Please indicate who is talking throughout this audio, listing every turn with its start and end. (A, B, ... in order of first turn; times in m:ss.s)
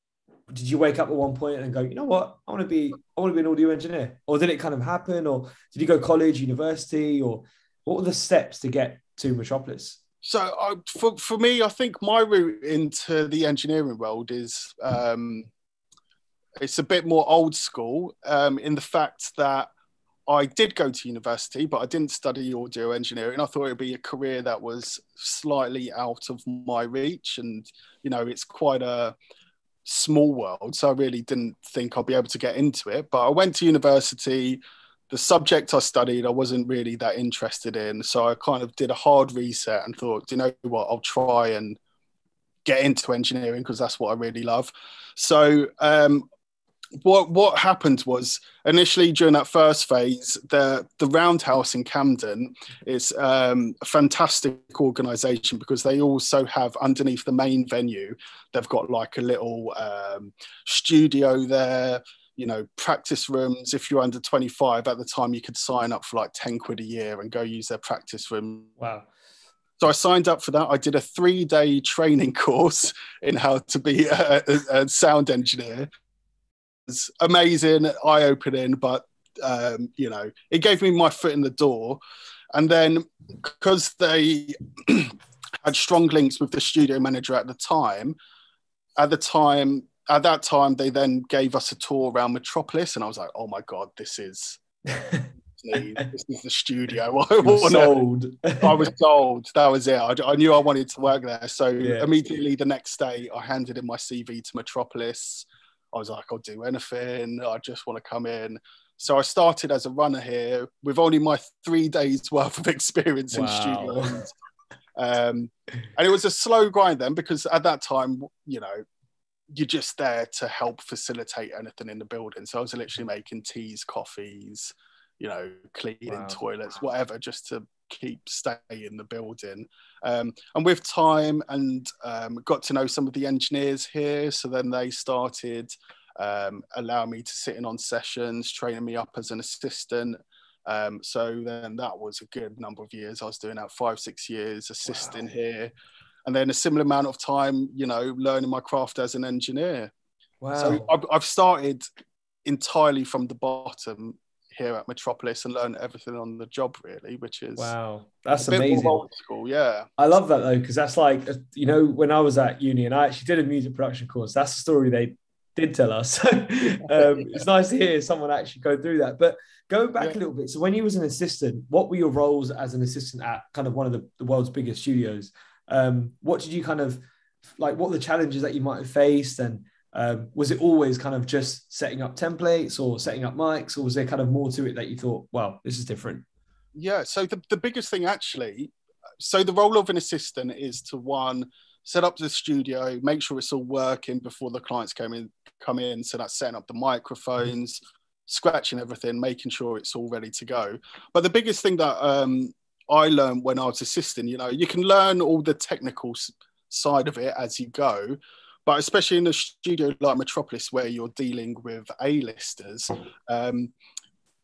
0:00.5-0:10.0 A
0:10.2-0:15.5 B
0:16.6-0:19.7 B
0:20.3-0:29.2 B
0:29.8-0:41.8 B
0:42.6-0:46.3 B
0:47.0-1:08.7 B
1:08.8-1:09.1 A
1:09.8-1:15.9 B
1:16.9-1:22.0 B
1:22.5-1:28.2 B
1:29.0-1:34.6 B
1:34.9-1:36.1 A
1:35.5-1:38.0 B
1:37.4-1:38.9 A
1:38.6-1:54.3 B
1:41.8-1:42.1 A
1:53.3-1:54.2 A
1:55.0-1:58.8 B
1:59.5-2:25.7 B
2:06.1-2:06.4 A
2:24.9-2:25.2 A
2:26.2-2:29.9 B
2:30.4-2:30.9 A
2:30.6-2:31.9 B
2:32.5-2:37.7 B
2:37.6-2:39.0 A
2:38.4-2:39.9 B
2:40.0-2:57.0 A
2:46.9-2:47.4 B
2:57.6-3:06.2 A
3:06.8-3:33.7 B